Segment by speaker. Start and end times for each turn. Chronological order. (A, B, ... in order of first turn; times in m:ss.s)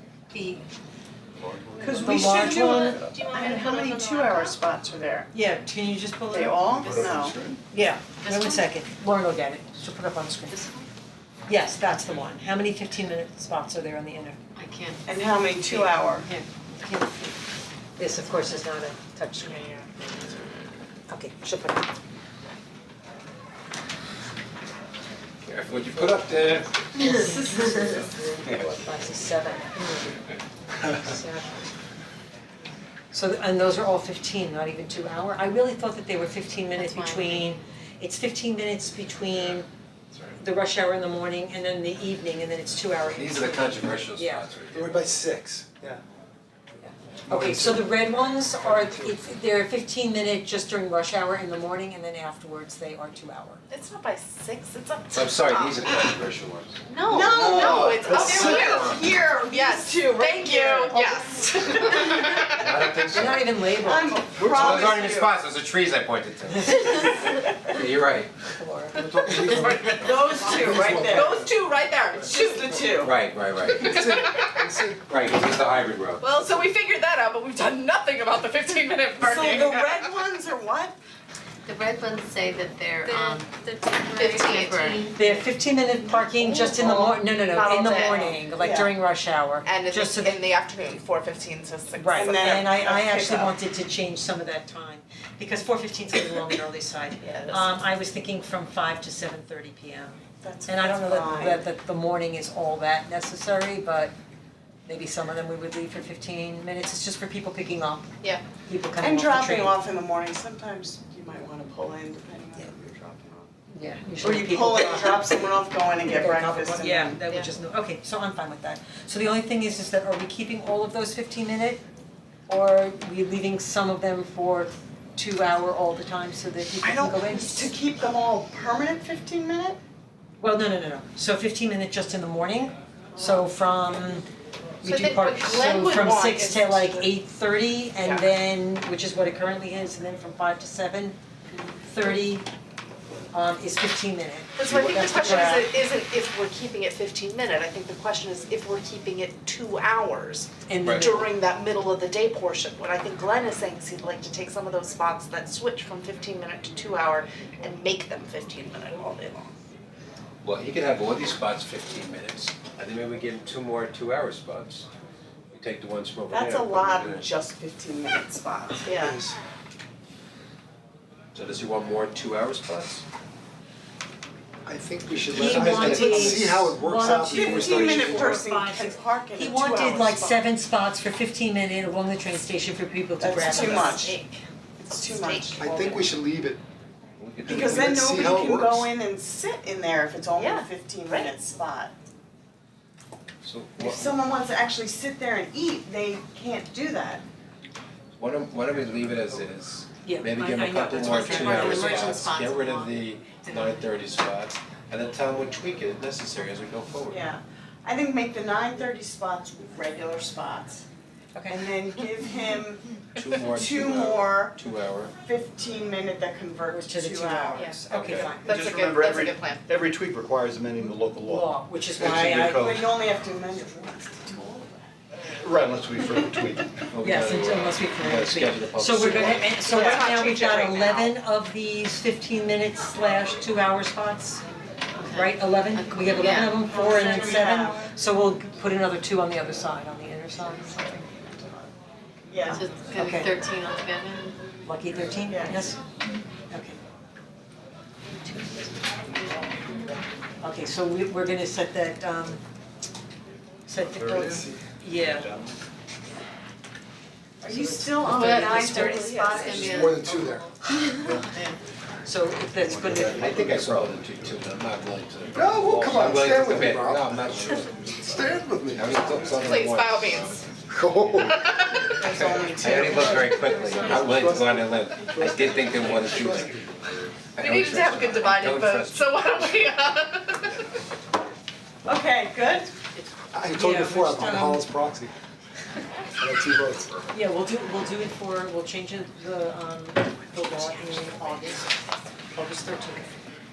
0:00.3-0:00.6 A
0:01.8-0:05.3 B
0:02.0-0:03.0 A
0:02.6-0:04.5 C
0:05.3-0:06.6 A
0:06.3-0:07.4 B
0:06.9-0:07.3 D
0:06.9-0:07.5 E
0:07.7-0:10.6 A
0:08.3-0:08.6 F
0:08.3-0:08.5 C
0:10.5-0:10.9 F
0:11.5-0:14.4 A
0:14.6-0:15.0 C
0:15.0-0:16.3 B
0:15.7-0:17.3 A
0:18.0-0:19.6 A
0:19.4-0:19.9 F
0:21.1-0:21.8 A
0:25.5-0:28.8 G
0:27.0-0:30.2 A
0:30.8-0:31.5 A
0:33.1-0:39.7 A
0:36.8-0:37.4 C
0:40.4-0:44.4 A
0:43.0-0:45.2 G
0:44.7-0:45.8 D
0:46.8-0:53.6 A
0:47.3-0:47.8 D
0:53.7-0:55.9 F
0:55.1-0:56.8 G
0:56.9-1:02.8 F
0:57.0-1:02.5 B
0:57.2-0:59.0 E
0:57.5-0:58.6 D
0:58.6-0:59.0 G
1:02.5-1:03.6 G
1:03.1-1:04.5 A
1:03.8-1:05.4 B
1:04.4-1:08.3 G
1:08.6-1:09.0 A
1:09.0-1:11.3 D
1:09.3-1:11.5 B
1:09.4-1:12.8 F
1:12.2-1:13.2 B
1:12.9-1:13.9 G
1:13.8-1:15.0 D
1:13.8-1:14.7 F
1:15.1-1:16.2 G
1:16.2-1:20.1 F
1:19.2-1:20.9 B
1:21.7-1:25.4 C
1:23.1-1:23.4 F
1:24.1-1:25.2 F
1:25.1-1:30.4 A
1:26.4-1:28.4 F
1:28.1-1:28.9 B
1:29.6-1:32.6 F
1:31.9-1:44.1 A
1:32.1-1:33.5 B
1:37.2-1:37.7 F
1:40.4-1:41.6 B
1:44.8-1:48.0 A
1:48.6-1:49.8 A
1:49.0-1:53.5 B
1:53.7-2:01.8 A
1:54.2-1:57.2 B
2:02.5-2:07.7 A
2:06.8-2:09.8 B
2:10.4-2:14.2 A
2:13.2-2:13.4 F
2:14.8-2:17.1 F
2:14.8-2:21.2 A
2:21.8-2:22.5 A
2:23.3-2:25.7 A
2:24.6-2:39.6 F
2:30.7-2:31.3 A
2:30.8-2:31.2 G
2:40.4-2:44.9 G
2:45.5-2:47.3 G
2:46.3-2:49.2 B
2:48.8-2:49.2 F
2:51.3-2:53.0 G
2:54.6-2:58.4 D
2:55.3-2:56.6 G
2:55.3-3:04.1 A
2:55.8-2:56.2 B
2:55.8-2:56.4 E
2:57.0-3:00.4 B
2:57.5-2:58.2 E
3:03.2-3:04.2 B
3:03.4-3:04.4 F
3:04.8-3:06.1 B
3:05.1-3:06.0 F
3:05.6-3:06.6 D
3:07.2-3:08.0 G
3:07.4-3:11.9 B
3:07.6-3:08.6 E
3:07.7-3:08.8 D
3:10.3-3:11.3 F
3:13.4-3:14.2 G
3:13.8-3:17.2 B
3:18.2-3:27.2 G
3:20.0-3:22.3 A
3:21.0-3:22.7 F
3:22.2-3:22.9 C
3:27.1-3:30.8 B
3:31.3-3:31.7 A
3:31.5-3:34.6 B
3:33.1-3:35.1 G
3:35.2-3:38.5 B
3:36.7-3:38.4 A
3:37.5-3:39.6 F
3:37.9-3:42.9 E
3:41.2-3:42.7 A
3:42.5-3:44.8 B
3:45.4-3:46.7 E
3:46.9-3:49.8 G
3:47.0-3:54.4 A
3:49.7-3:51.1 F
3:55.0-3:56.6 F
3:55.1-4:01.0 A
3:56.3-3:57.9 B
4:00.5-4:01.7 B
4:02.3-4:02.7 B
4:02.5-4:03.3 A
4:02.5-4:04.3 C
4:02.9-4:03.2 F
4:04.6-4:05.8 A
4:05.3-4:05.6 B
4:06.5-4:06.8 A
4:08.2-4:08.8 A
4:10.4-4:12.4 A
4:13.7-4:15.3 A
4:14.0-4:14.6 E
4:15.1-4:15.6 E
4:17.4-4:20.1 B
4:18.0-4:20.4 C
4:18.0-4:20.1 F
4:18.5-4:18.9 A
4:19.7-4:20.4 D
4:22.0-4:23.5 A
4:22.6-4:24.0 D
4:23.0-4:31.3 G
4:25.3-4:29.4 D
4:29.3-4:30.4 F
4:30.7-4:31.4 D
4:31.2-4:31.9 F
4:31.8-4:34.4 B
4:32.2-4:39.6 G
4:32.7-4:34.4 A
4:33.8-4:36.7 D
4:35.6-4:36.0 E
4:37.4-4:40.6 F
4:41.8-4:42.7 B
4:43.0-4:44.7 A
4:43.3-4:45.1 D
4:46.2-4:46.9 D
4:47.1-4:51.8 A
4:52.3-4:53.2 A